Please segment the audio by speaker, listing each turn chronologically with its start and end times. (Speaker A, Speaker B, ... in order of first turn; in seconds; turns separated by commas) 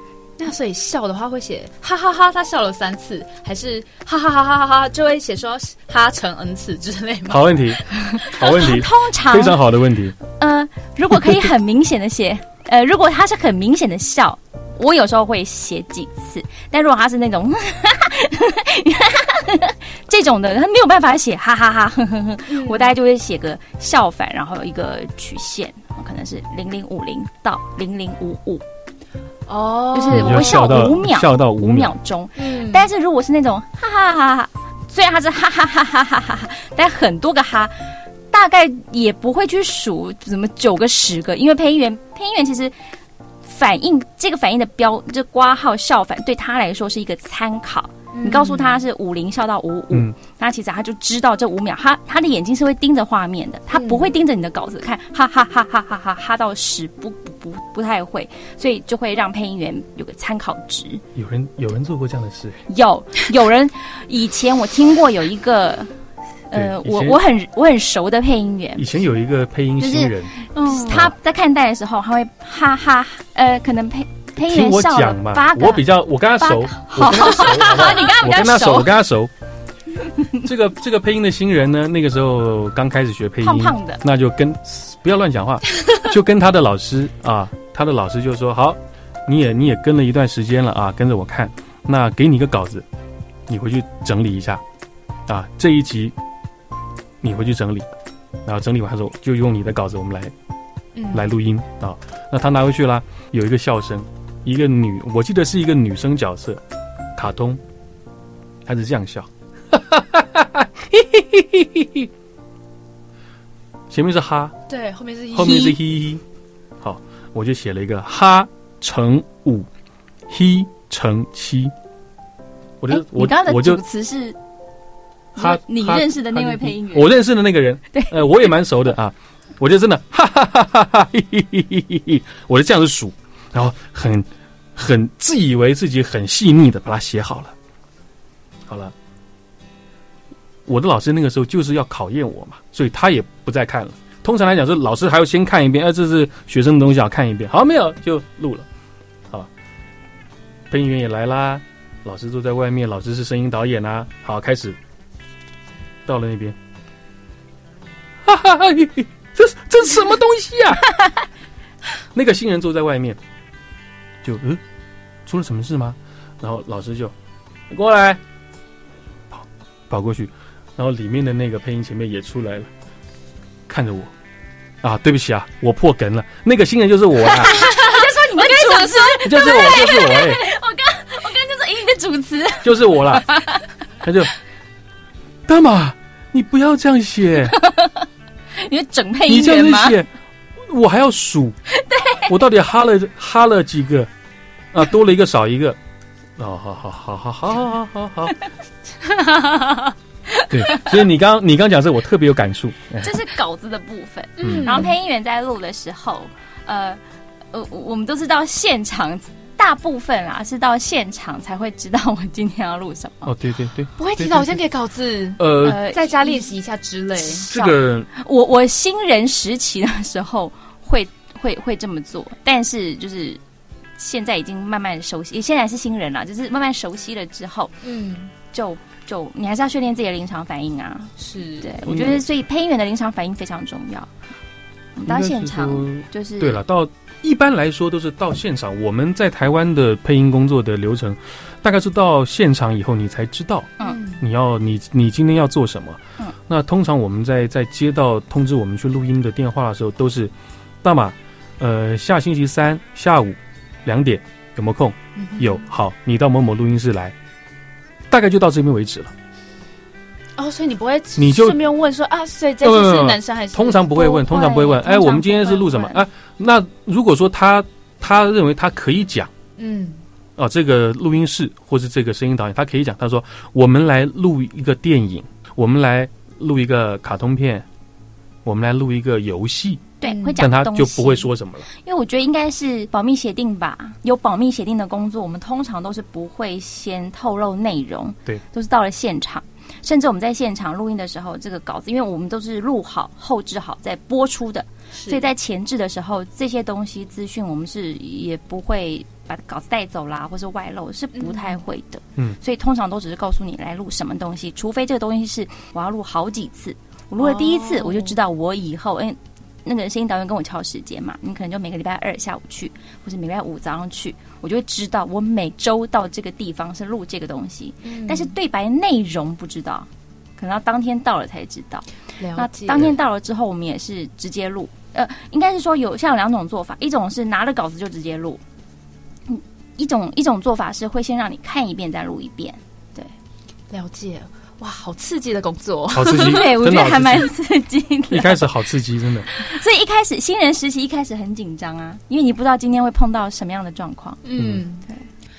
Speaker A: 0.4-7.5, Speaker B: 7.3-10.2, Speaker C: 8.2-9.7, Speaker C: 10.3-28.6, Speaker A: 22.5-22.9, Speaker A: 29.5-30.7, Speaker C: 29.9-42.7, Speaker B: 30.1-31.9, Speaker A: 32.4-32.9, Speaker C: 43.4-61.0, Speaker A: 48.1-48.8, Speaker B: 49.9-50.1, Speaker A: 53.7-54.1, Speaker B: 61.1-62.6, Speaker C: 62.7-65.9, Speaker C: 66.5-68.8, Speaker B: 66.5-67.2, Speaker B: 68.8-71.1, Speaker C: 69.8-78.9, Speaker B: 74.3-79.3, Speaker B: 80.4-92.8, Speaker C: 83.4-84.0, Speaker B: 93.5-94.6, Speaker B: 95.3-96.1, Speaker B: 97.2-97.9, Speaker B: 98.4-100.3, Speaker A: 100.9-101.3, Speaker B: 101.1-106.6, Speaker B: 107.2-107.6, Speaker B: 108.7-112.1, Speaker B: 113.9-114.5, Speaker A: 114.7-115.8, Speaker B: 115.3-116.2, Speaker B: 116.8-119.7, Speaker B: 120.3-121.7, Speaker B: 122.8-123.8, Speaker C: 122.9-124.4, Speaker C: 125.3-127.2, Speaker B: 125.4-137.5, Speaker C: 127.9-128.5, Speaker B: 138.7-138.9, Speaker B: 140.7-148.7, Speaker B: 150.7-154.8, Speaker B: 156.1-156.6, Speaker B: 158.2-160.9, Speaker B: 162.1-163.2, Speaker B: 164.2-164.6, Speaker B: 165.2-167.1, Speaker B: 167.7-168.2, Speaker B: 169.3-172.7, Speaker B: 173.7-174.1, Speaker B: 174.8-177.6, Speaker C: 177.3-183.7, Speaker A: 177.5-179.8, Speaker B: 179.2-180.4, Speaker B: 182.6-183.3, Speaker B: 184.0-184.3, Speaker B: 185.5-187.6, Speaker C: 187.4-190.0, Speaker B: 189.3-190.1, Speaker B: 190.7-191.6, Speaker C: 191.8-192.3, Speaker B: 192.3-194.1, Speaker B: 194.7-195.8, Speaker B: 196.4-198.4, Speaker A: 199.3-199.6, Speaker C: 200.3-201.1, Speaker B: 200.5-203.1, Speaker C: 203.0-207.0, Speaker A: 204.4-204.9, Speaker B: 204.4-204.9, Speaker C: 207.5-213.3, Speaker B: 213.2-214.6, Speaker A: 214.0-217.4, Speaker B: 215.4-215.8, Speaker C: 215.6-216.5, Speaker C: 217.2-223.4, Speaker B: 217.5-218.1, Speaker C: 224.0-227.8, Speaker A: 227.8-228.3, Speaker C: 228.5-234.1, Speaker A: 231.2-231.8, Speaker B: 231.8-232.2, Speaker C: 234.9-236.6, Speaker B: 235.1-257.1, Speaker A: 243.8-244.2, Speaker A: 255.2-255.6, Speaker B: 258.1-259.1, Speaker A: 260.4-264.0, Speaker B: 261.2-261.6, Speaker B: 262.6-269.3, Speaker C: 263.9-266.1, Speaker A: 269.6-270.0, Speaker B: 270.4-277.6, Speaker B: 278.4-281.7, Speaker C: 280.0-328.4, Speaker A: 280.0-280.4, Speaker A: 294.9-295.2, Speaker A: 301.1-301.6, Speaker A: 307.2-308.2, Speaker A: 317.8-318.3, Speaker A: 322.2-322.9, Speaker C: 329.3-333.1, Speaker A: 333.7-336.4, Speaker B: 335.9-337.3, Speaker C: 336.0-338.6, Speaker B: 338.1-339.3, Speaker C: 339.2-344.2, Speaker A: 344.2-344.9, Speaker B: 344.4-344.6